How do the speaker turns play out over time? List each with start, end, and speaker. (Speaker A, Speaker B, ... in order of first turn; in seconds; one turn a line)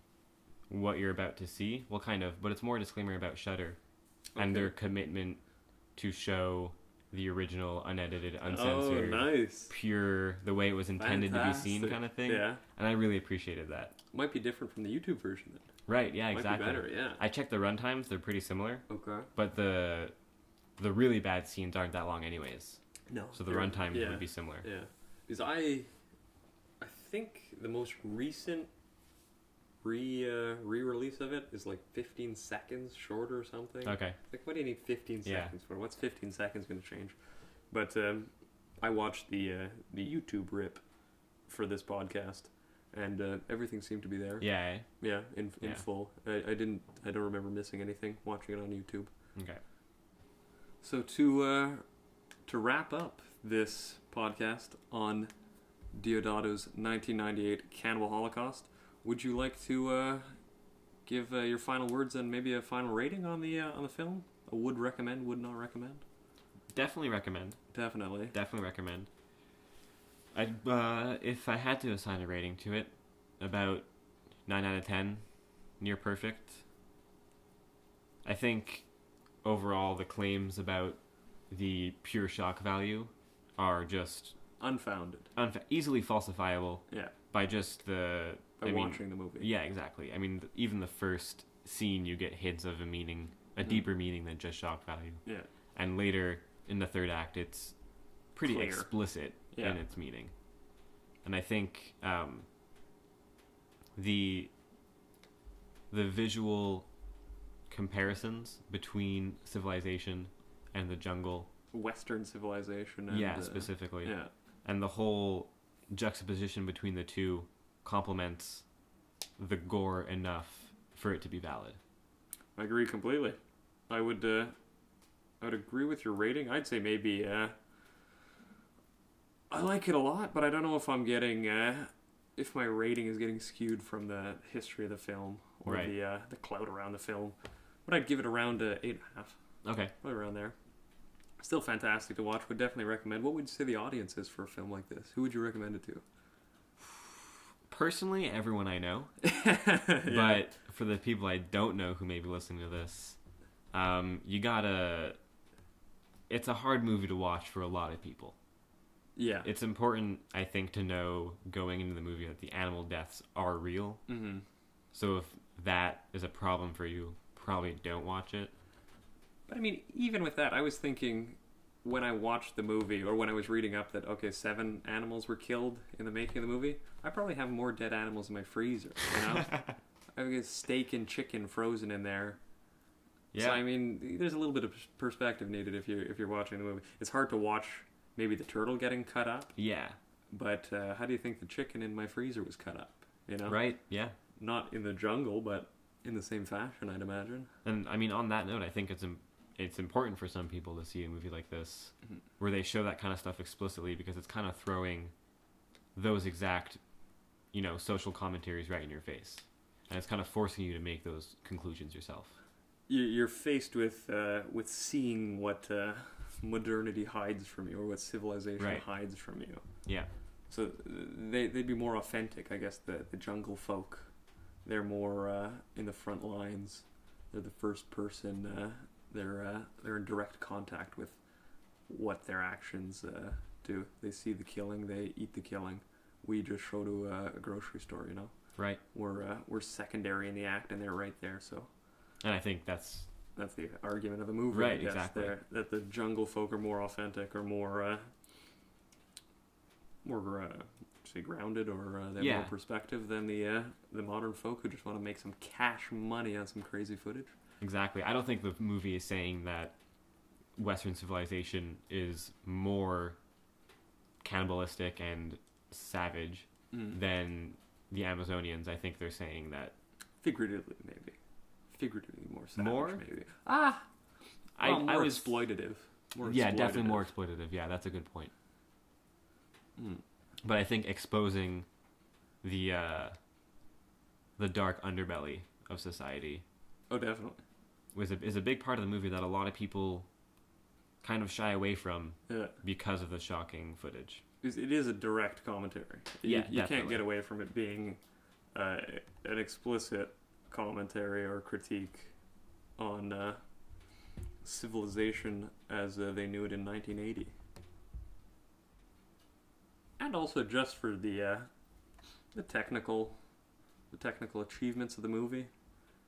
Speaker A: 0.7-3.8
Speaker B: 4.3-4.7
Speaker A: 4.3-13.9
Speaker B: 8.4-9.7
Speaker B: 11.0-12.6
Speaker B: 14.1-17.2
Speaker A: 15.9-20.1
Speaker B: 18.9-19.3
Speaker A: 20.8-24.7
Speaker B: 23.1-26.2
Speaker B: 26.8-28.7
Speaker B: 29.8-49.3
Speaker A: 33.8-34.2
Speaker A: 35.2-35.5
Speaker A: 44.4-45.9
Speaker A: 49.3-49.6
Speaker B: 50.8-55.3
Speaker B: 55.9-60.5
Speaker B: 61.0-66.0
Speaker A: 66.7-69.1
Speaker B: 67.7-68.3
Speaker A: 70.3-76.6
Speaker A: 78.2-78.9
Speaker A: 79.4-84.4
Speaker B: 84.6-85.3
Speaker A: 85.3-97.8
Speaker B: 86.9-87.1
Speaker B: 88.6-89.5
Speaker A: 98.3-100.4
Speaker B: 98.4-99.8
Speaker A: 101.2-102.5
Speaker A: 104.0-104.5
Speaker A: 105.9-106.9
Speaker A: 107.7-111.5
Speaker B: 111.7-114.3
Speaker A: 113.1-118.7
Speaker A: 119.4-121.8
Speaker B: 122.5-124.6
Speaker B: 125.4-127.7
Speaker B: 129.5-140.6
Speaker A: 135.6-135.9
Speaker A: 139.6-139.9
Speaker B: 141.4-146.0
Speaker A: 147.7-149.2
Speaker B: 149.2-150.5
Speaker A: 150.0-155.2
Speaker A: 156.3-158.3
Speaker B: 159.2-159.5
Speaker A: 159.4-164.2
Speaker B: 164.1-164.4
Speaker A: 164.9-168.5
Speaker B: 169.5-182.4
Speaker A: 183.3-183.6
Speaker B: 183.4-189.6
Speaker A: 189.6-190.0
Speaker B: 190.3-197.5
Speaker A: 193.5-194.2
Speaker A: 197.6-205.1
Speaker A: 205.9-206.8
Speaker A: 207.5-212.4
Speaker B: 212.9-231.3
Speaker A: 218.6-218.9
Speaker A: 219.8-220.1
Speaker B: 231.8-241.7
Speaker A: 242.2-243.1
Speaker B: 243.3-248.2
Speaker A: 244.5-245.4
Speaker B: 250.0-257.3
Speaker A: 252.2-252.5
Speaker A: 257.6-259.8
Speaker A: 260.5-263.2
Speaker A: 264.2-269.7
Speaker B: 266.7-267.0
Speaker B: 270.2-277.1
Speaker A: 272.6-273.0
Speaker A: 274.6-275.6
Speaker A: 276.2-278.3
Speaker B: 279.8-280.0
Speaker A: 280.4-281.7
Speaker A: 282.4-283.2
Speaker A: 284.4-286.4
Speaker B: 286.9-287.4
Speaker A: 287.9-290.1
Speaker A: 291.0-294.2
Speaker B: 292.3-292.6
Speaker B: 294.4-307.3
Speaker A: 296.2-297.0
Speaker B: 310.0-313.4
Speaker B: 313.9-315.7